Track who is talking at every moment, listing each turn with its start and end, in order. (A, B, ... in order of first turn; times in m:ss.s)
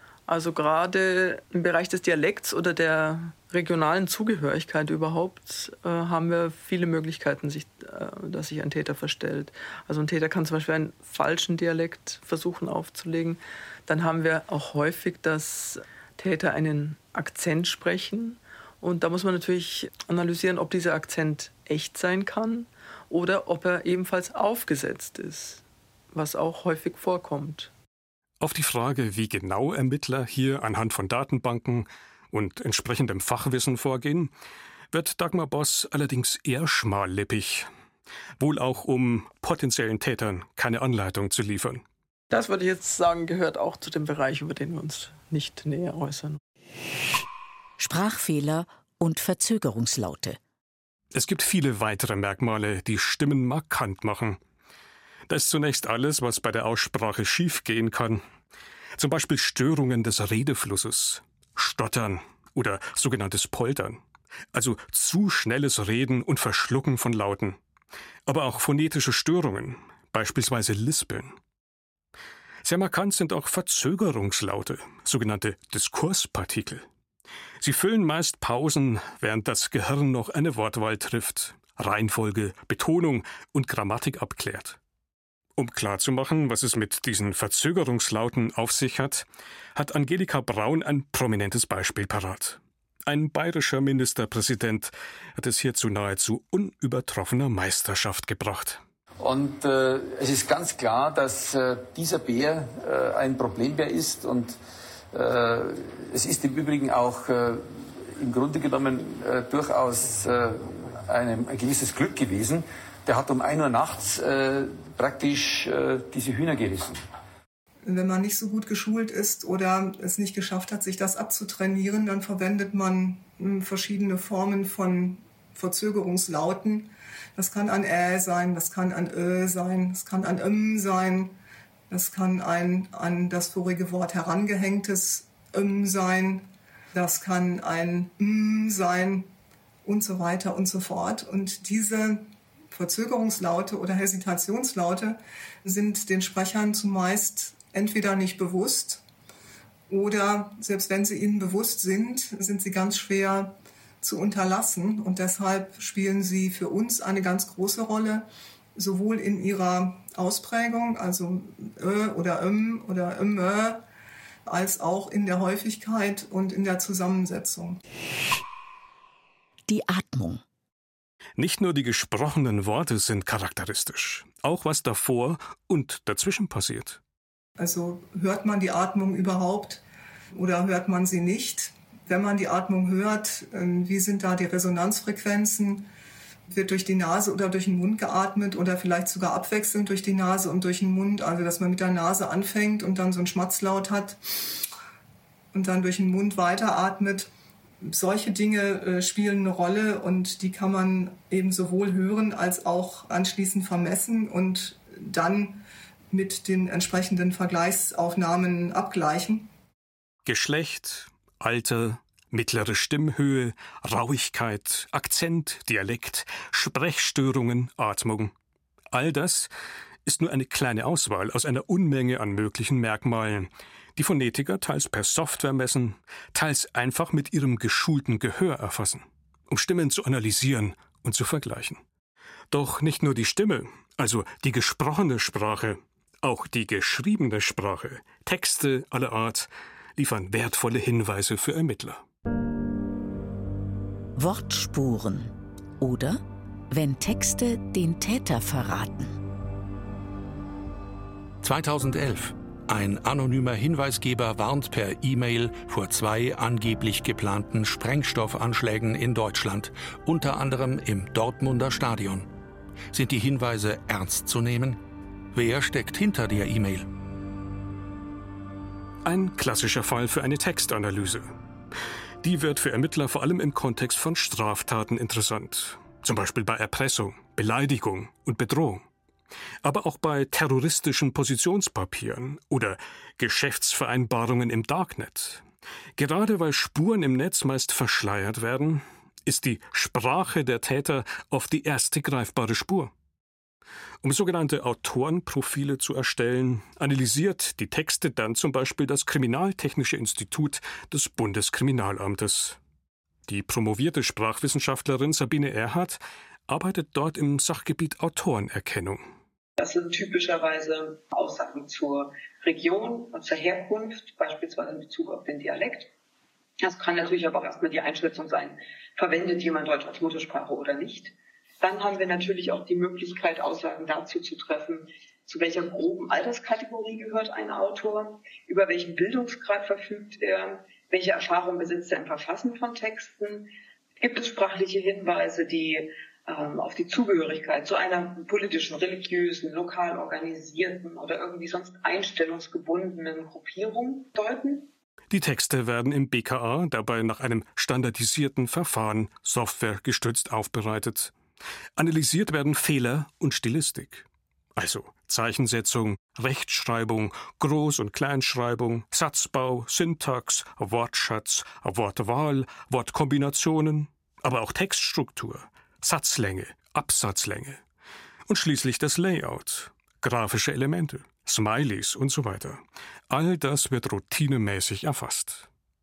0:00.3-0:27.7 A
0:28.4-0:34.3 B
0:34.9-0:37.7 B
0:38.4-0:41.8 B
0:42.3-0:46.4 A
0:47.8-0:50.4 C
0:51.1-0:54.4 B
0:55.3-0:58.2 B
0:59.0-1:04.0 B
1:04.5-1:07.6 B
1:08.2-1:11.4 B
1:12.6-1:16.8 B
1:17.6-1:24.8 B
1:25.6-1:38.8 B
1:39.2-1:44.6 D
1:45.1-1:57.0 D
1:57.8-2:11.3 E
2:11.9-2:19.3 E
2:19.8-2:29.0 E
2:29.9-2:43.8 E
2:44.4-2:47.8 E
2:49.7-2:50.4 C
2:51.4-2:57.0 B
2:57.6-2:59.8 E
3:00.3-3:05.9 E
3:06.5-3:14.2 E
3:15.5-3:17.3 E
3:17.8-3:29.5 E
3:30.2-3:38.3 B
3:38.9-3:39.5 B
3:40.0-3:51.8 B
3:52.5-4:02.0 B
4:04.2-4:09.1 C
4:11.4-4:22.3 F
4:22.9-4:24.8 F
4:25.3-4:26.9 F
4:29.0-4:31.3 B
4:32.2-4:38.8 B
4:39.6-4:45.4 B
4:46.0-4:52.9 B
4:54.0-5:02.6 B
5:03.3-5:09.0 B
5:09.6-5:15.9 G
5:16.6-5:44.7 G
5:45.1-5:51.1 B
5:51.8-6:07.6 B
6:08.2-6:15.5 B